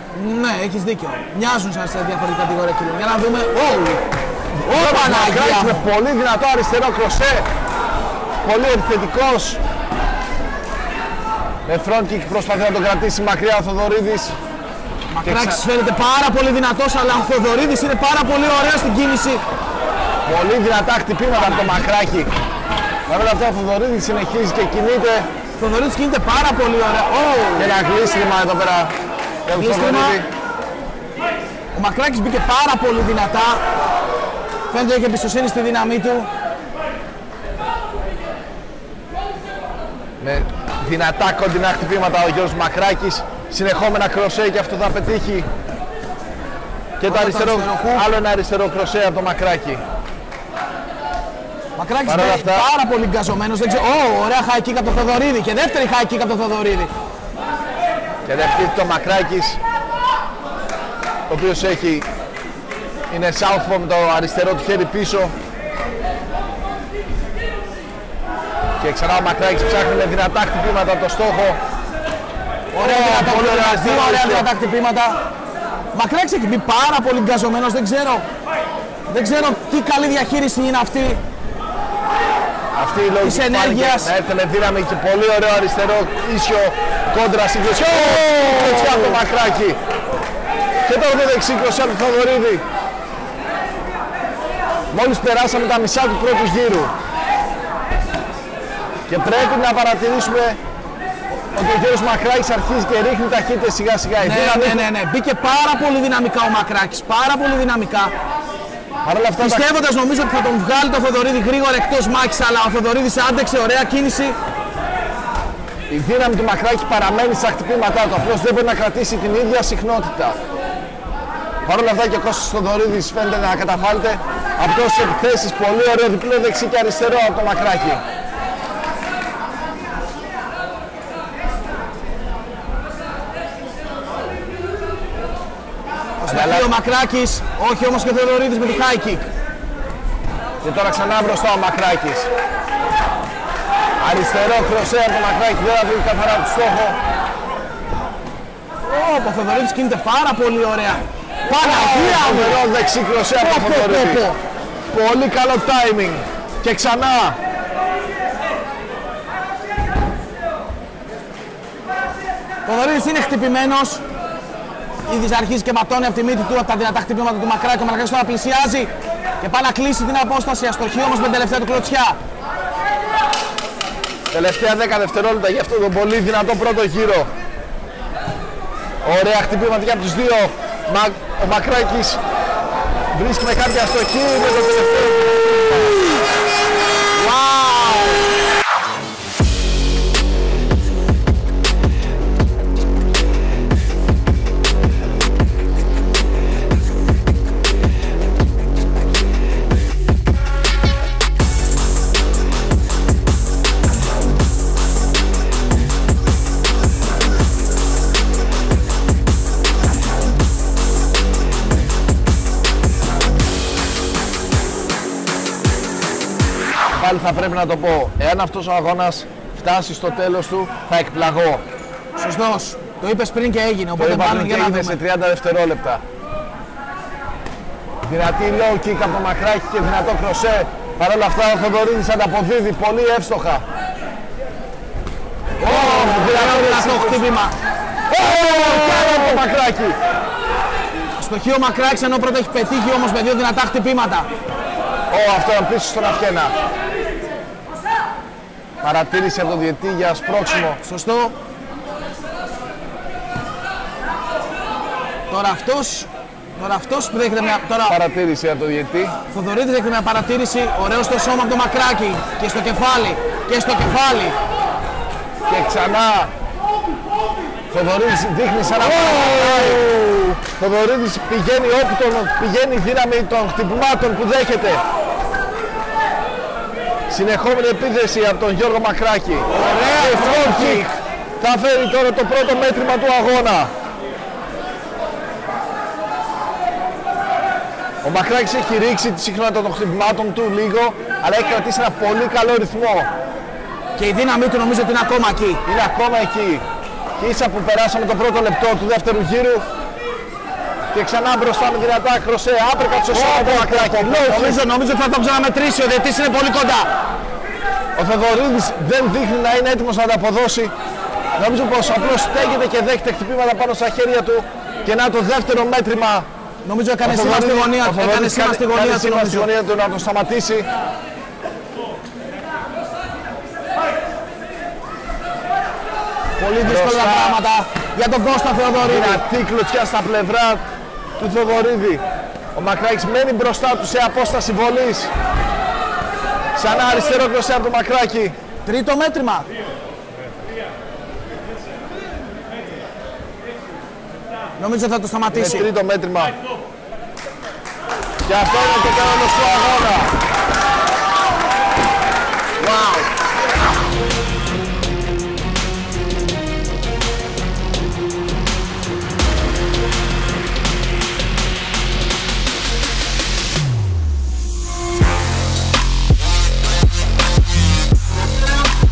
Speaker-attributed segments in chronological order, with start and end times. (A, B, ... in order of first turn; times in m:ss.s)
0:00.2-0:04.0 A
0:04.6-0:05.8 A
0:04.6-0:07.5 B
0:08.4-0:09.6 B
0:11.6-0:14.3 B
0:15.1-0:19.4 A
0:15.2-0:15.6 B
0:20.3-0:22.3 B
0:23.1-0:25.3 B
0:25.6-0:27.8 A
0:27.6-0:28.9 B
0:29.5-0:30.3 B
0:29.6-0:30.2 A
0:31.7-0:33.6 A
0:34.7-0:36.3 A
0:40.2-0:45.5 B
0:47.0-0:49.8 B
0:47.1-0:48.0 A
0:51.8-0:56.9 A
0:52.1-0:52.7 B
0:58.3-0:59.6 B
1:01.3-1:02.1 B
1:03.1-1:05.3 B
1:08.8-1:11.6 B
1:12.7-1:15.2 A
1:12.8-1:14.5 B
1:15.9-1:18.2 A
1:19.1-1:21.2 A
1:22.8-1:29.8 B
1:23.2-1:24.1 A
1:28.2-1:29.2 A
1:30.9-1:32.6 B
1:34.9-1:36.9 B
1:39.1-1:40.6 B
1:41.5-1:44.8 B
1:44.2-1:48.1 A
1:49.0-1:49.7 B
1:49.4-1:54.4 A
1:55.9-2:00.4 B
2:01.6-2:08.0 B
2:16.2-2:19.3 A
2:16.3-2:16.7 B
2:20.6-2:22.3 B
2:24.0-2:27.0 B
2:28.9-2:32.6 A
2:31.6-2:34.3 B
2:33.4-2:34.4 A
2:34.9-2:37.4 B
2:42.7-2:44.0 A
2:45.1-2:52.2 A
2:54.3-2:57.3 B
2:59.0-3:02.2 B
3:03.1-3:05.4 B
3:07.2-3:08.2 A
3:36.9-3:41.6 B
3:42.2-3:45.0 A
3:44.0-3:46.0 B
3:48.0-3:53.6 B
3:55.6-3:57.5 A
3:55.6-3:57.2 B
3:58.1-4:00.0 B
3:58.5-3:59.4 A
4:01.2-4:04.3 A
4:05.1-4:06.5 B
4:08.8-4:10.8 B
4:10.8-4:11.3 A
4:15.3-4:18.0 A
4:17.9-4:19.2 B
4:19.3-4:24.4 A
4:25.5-4:26.3 B
4:27.7-4:34.8 B
4:28.9-4:29.8 A
4:37.1-4:43.7 B
4:39.5-4:40.9 A
4:48.0-4:53.1 B
4:54.0-4:55.6 A
4:55.7-4:56.6 B
4:57.2-4:59.6 B
5:00.9-5:04.6 B
5:03.1-5:06.9 A
5:08.0-5:10.7 B
5:11.4-5:16.3 B
5:16.6-5:19.5 A
5:17.0-5:20.7 B
5:26.4-5:29.2 A
5:26.6-5:27.4 B
5:28.8-5:30.6 B
5:31.2-5:32.0 B
5:32.6-5:35.1 B
5:36.6-5:38.3 B
5:38.7-5:39.5 A
5:44.6-5:45.7 A
5:45.3-5:46.4 B
5:48.3-5:50.2 B
5:52.6-5:53.0 A